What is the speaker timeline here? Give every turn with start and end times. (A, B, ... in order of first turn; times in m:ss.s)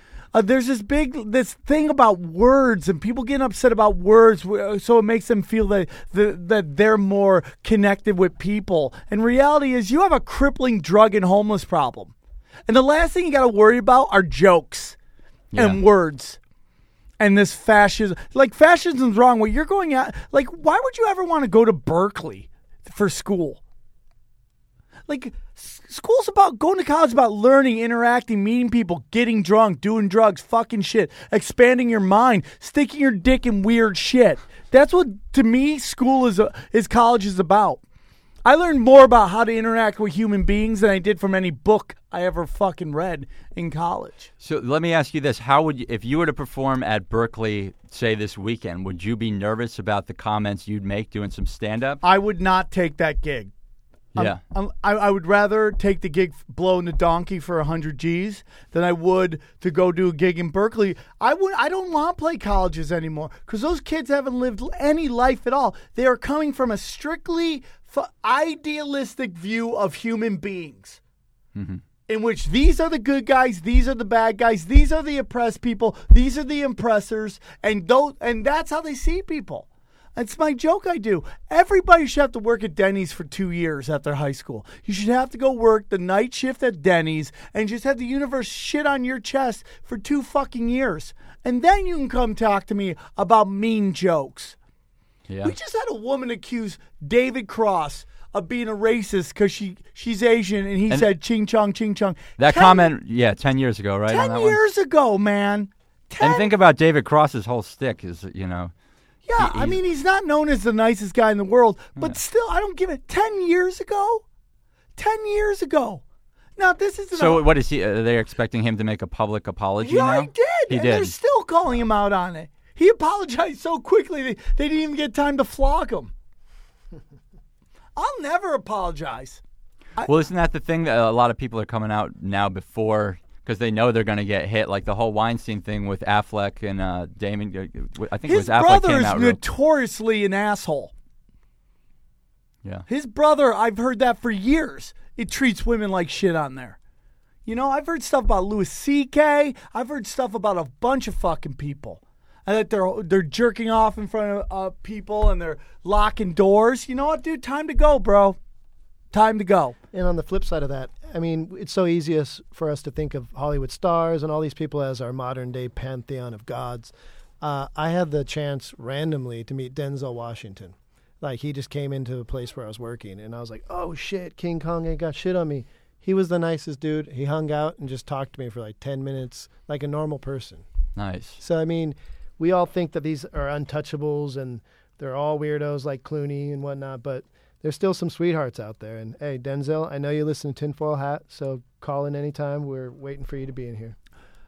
0:00.3-0:12.1 A
0:12.7-0:15.0 A
0:15.5-0:15.8 B
0:15.5-0:16.4 A
0:17.2-0:23.6 A
0:25.1-0:37.8 A
0:38.4-0:44.3 A
0:44.4-0:52.0 B
0:52.0-0:53.5 A
0:54.1-0:54.4 B
0:54.2-1:11.0 A
1:11.5-1:11.8 B
1:12.1-1:34.6 A
1:35.3-1:35.5 B
1:35.4-1:42.9 A
1:42.4-1:44.6 B
1:44.1-1:46.5 A
1:46.2-1:48.7 B
1:49.2-1:54.2 A
1:49.4-1:49.8 B
1:55.0-1:56.0 A
1:56.6-1:57.5 A
1:57.1-2:01.1 B
1:59.8-2:06.1 A
2:08.0-2:09.4 A
2:10.0-2:19.4 B
2:18.3-2:20.9 A
2:22.9-2:26.8 A
2:27.4-2:38.4 A
2:39.1-2:39.8 A
2:39.9-3:00.6 C
3:01.0-3:01.4 B
3:01.4-3:14.0 C